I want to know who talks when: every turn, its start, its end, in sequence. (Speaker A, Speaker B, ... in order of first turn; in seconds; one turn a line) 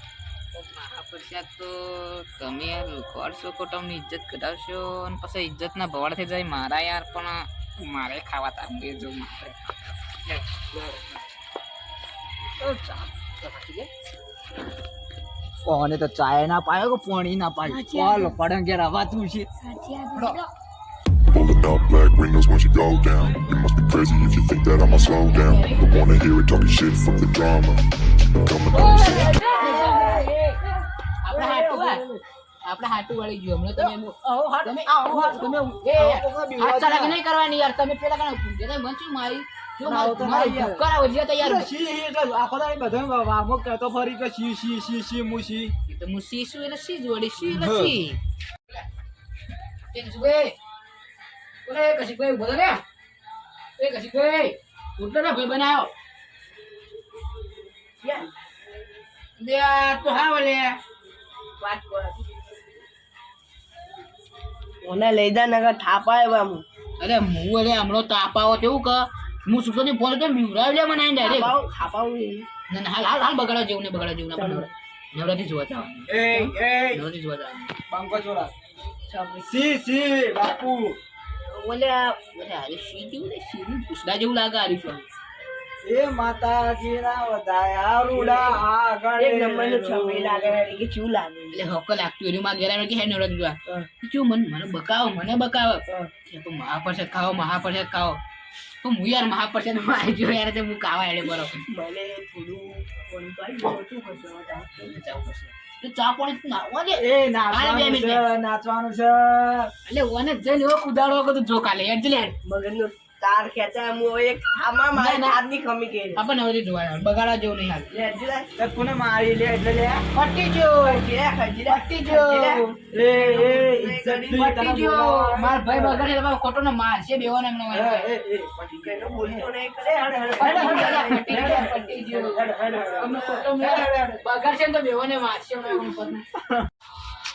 Speaker A: 0.5-9.7
Speaker A: 10.3-11.1
Speaker B: 12.6-13.9
Speaker B: 15.7-19.5
Speaker C: 17.6-18.4
Speaker C: 19.6-20.5
Speaker A: 20.1-20.4
Speaker D: 21.3-27.8
Speaker A: 25.0-26.1
Speaker D: 28.4-29.4
Speaker B: 28.7-30.3
Speaker C: 28.8-30.2
Speaker A: 28.8-30.6
Speaker A: 31.2-32.0
Speaker B: 31.3-32.2
Speaker A: 32.6-41.7
Speaker B: 33.8-37.2
Speaker B: 39.8-40.9
Speaker B: 41.4-45.7
Speaker A: 45.9-48.2
Speaker B: 47.4-48.0
Speaker A: 49.9-50.6
Speaker A: 51.6-52.8
Speaker A: 53.8-55.9
Speaker E: 58.0-58.3
Speaker A: 59.4-60.8
Speaker E: 61.7-62.2
Speaker E: 64.8-66.7
Speaker A: 67.0-71.6
Speaker E: 71.2-72.5
Speaker A: 72.7-77.7
Speaker E: 74.4-74.7
Speaker B: 76.1-77.0
Speaker B: 77.9-78.5
Speaker E: 79.1-79.5
Speaker B: 79.5-81.0
Speaker A: 81.5-85.1
Speaker B: 85.8-90.6
Speaker E: 88.2-88.6
Speaker E: 89.2-91.6
Speaker A: 91.5-98.2
Speaker A: 98.8-101.6
Speaker E: 101.7-104.9
Speaker A: 104.8-108.2
Speaker B: 107.0-109.7
Speaker A: 109.8-112.4
Speaker E: 112.5-116.2
Speaker A: 114.9-115.4
Speaker A: 116.2-117.9
Speaker E: 117.9-118.5
Speaker B: 118.6-120.1
Speaker A: 120.1-121.0
Speaker E: 120.7-124.5
Speaker A: 121.7-122.6
Speaker B: 122.7-126.0
Speaker A: 124.4-128.1
Speaker B: 127.7-134.2
Speaker E: 128.7-132.0
Speaker A: 130.4-136.2
Speaker E: 132.7-133.4